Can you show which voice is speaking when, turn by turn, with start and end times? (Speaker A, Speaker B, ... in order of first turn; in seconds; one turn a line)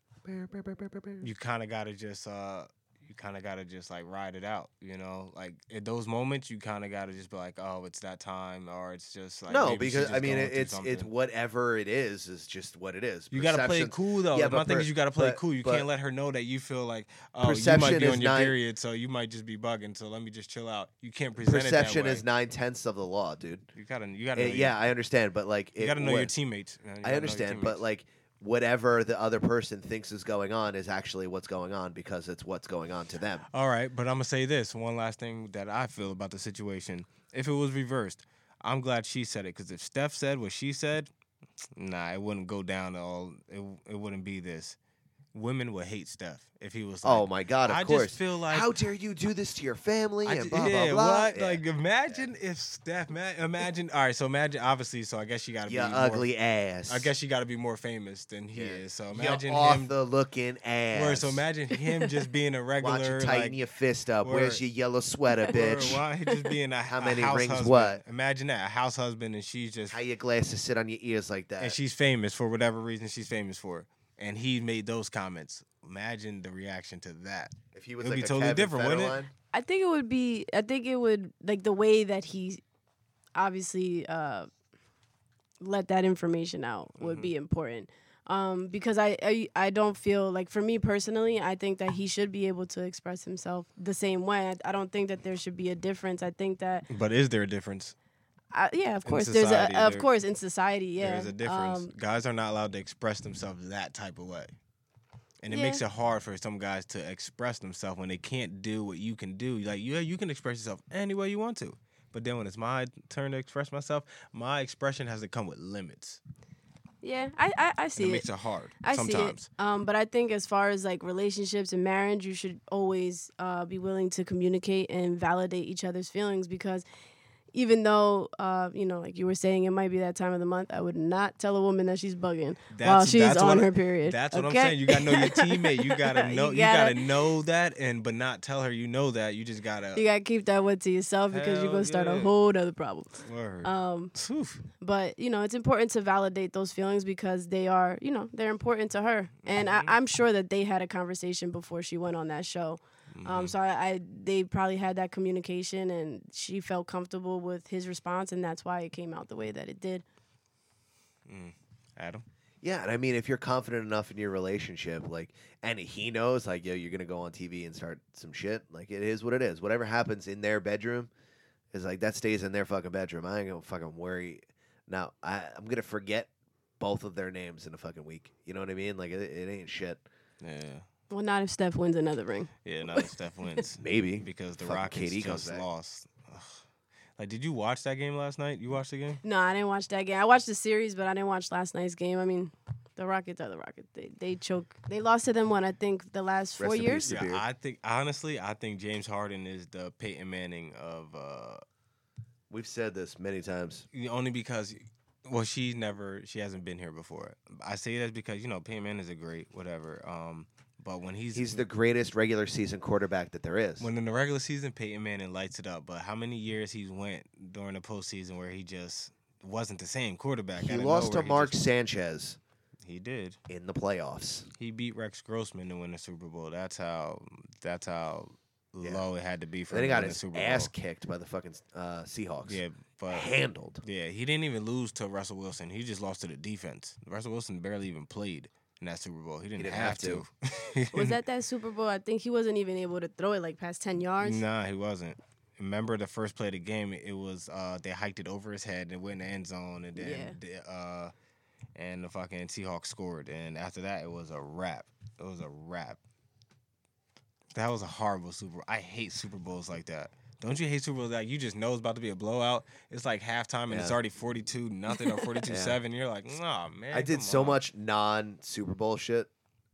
Speaker A: 0.2-1.3
Speaker B: 1.2-11.1
Speaker A: 9.5-15.9
Speaker B: 13.3-22.2
Speaker A: 17.4-18.6
Speaker A: 21.4-23.7
Speaker B: 23.7-24.8
Speaker A: 24.3-26.3
Speaker B: 25.8-27.8
Speaker A: 27.0-33.5
Speaker B: 33.5-41.1
Speaker B: 41.8-44.8
Speaker B: 45.3-48.7
Speaker A: 47.0-51.6
Speaker B: 50.2-56.3
Speaker A: 55.6-57.1
Speaker B: 56.9-59.9
Speaker A: 58.5-61.4
Speaker B: 60.9-63.6
Speaker A: 62.8-66.0
Speaker B: 64.2-64.6
Speaker B: 65.5-70.0
Speaker A: 66.9-68.0
Speaker A: 69.9-71.8
Speaker B: 71.6-79.2
Speaker A: 77.7-79.3
Speaker C: 79.5-82.6
Speaker C: 83.3-84.5
Speaker C: 85.6-96.8
Speaker B: 87.0-87.3
Speaker B: 96.9-97.9
Speaker C: 98.5-101.9
Speaker B: 99.0-100.1
Speaker B: 101.0-104.5
Speaker B: 105.4-116.2
Speaker C: 105.5-105.8
Speaker C: 117.0-118.2
Speaker B: 118.0-119.5
Speaker C: 118.8-126.8
Speaker C: 127.5-137.1
Speaker B: 132.7-140.0
Speaker C: 139.9-144.1
Speaker B: 141.3-142.3
Speaker B: 143.2-144.6
Speaker C: 144.8-160.0
Speaker B: 149.4-149.9
Speaker B: 153.1-153.5
Speaker B: 161.3-162.2
Speaker A: 162.6-171.1
Speaker A: 171.7-180.0
Speaker B: 180.4-180.8
Speaker C: 181.1-183.1
Speaker B: 182.6-186.6
Speaker A: 183.8-185.6
Speaker B: 187.2-189.2
Speaker C: 189.2-197.1
Speaker A: 196.6-197.4
Speaker B: 197.0-201.6
Speaker A: 202.5-203.9
Speaker B: 203.9-211.6
Speaker A: 211.3-213.9
Speaker B: 213.8-221.6
Speaker A: 220.6-222.4
Speaker B: 222.8-223.4
Speaker A: 223.5-224.5
Speaker B: 224.6-230.7
Speaker A: 229.7-233.8
Speaker B: 232.4-233.3
Speaker B: 233.8-241.2
Speaker A: 239.6-240.2
Speaker C: 240.9-244.4
Speaker B: 244.2-251.1
Speaker C: 249.9-250.4
Speaker B: 251.8-256.0
Speaker B: 257.5-267.6
Speaker A: 263.7-263.9
Speaker A: 265.5-265.8
Speaker A: 266.9-269.3